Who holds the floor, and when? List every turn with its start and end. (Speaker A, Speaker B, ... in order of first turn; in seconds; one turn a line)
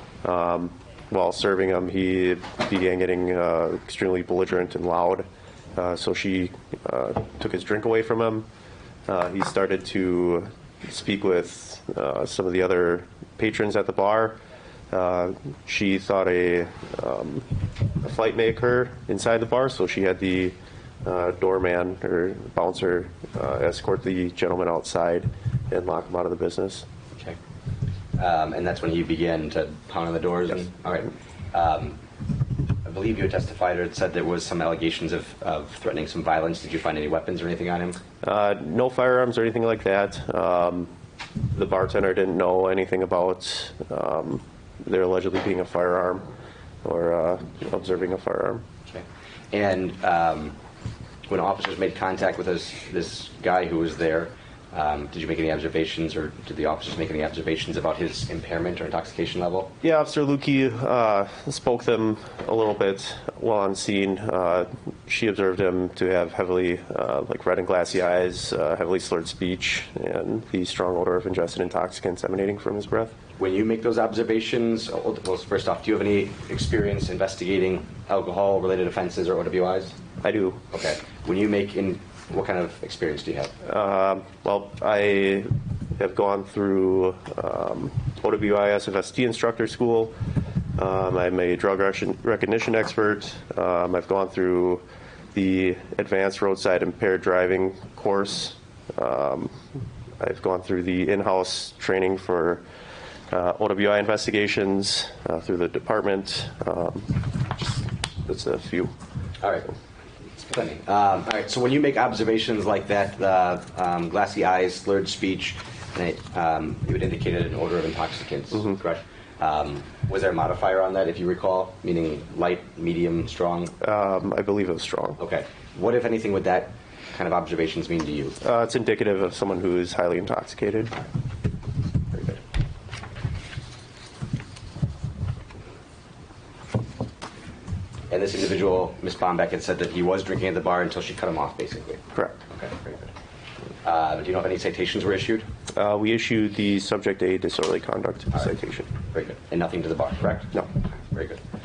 Speaker A: 0.2-8.5
Speaker A: 9.1-14.4
Speaker A: 14.9-17.5
Speaker A: 18.0-26.9
Speaker B: 28.2-32.0
Speaker B: 32.8-38.0
Speaker A: 38.2-40.9
Speaker A: 41.5-46.3
Speaker A: 46.8-48.6
Speaker B: 48.9-50.6
Speaker B: 51.3-59.7
Speaker A: 59.8-73.1
Speaker B: 73.4-80.0
Speaker A: 80.2-80.6
Speaker B: 80.7-83.5
Speaker A: 83.7-90.1
Speaker A: 90.8-94.8
Speaker A: 95.3-99.5
Speaker A: 100.2-102.6
Speaker A: 103.3-107.2
Speaker A: 108.3-108.9
Speaker B: 109.4-109.7
Speaker B: 110.3-123.8
Speaker A: 123.8-125.2
Speaker B: 125.2-128.4
Speaker A: 128.4-131.0
Speaker B: 132.1-132.4
Speaker B: 138.1-143.1
Speaker B: 143.8-145.5
Speaker A: 145.8-148.9
Speaker B: 148.3-151.4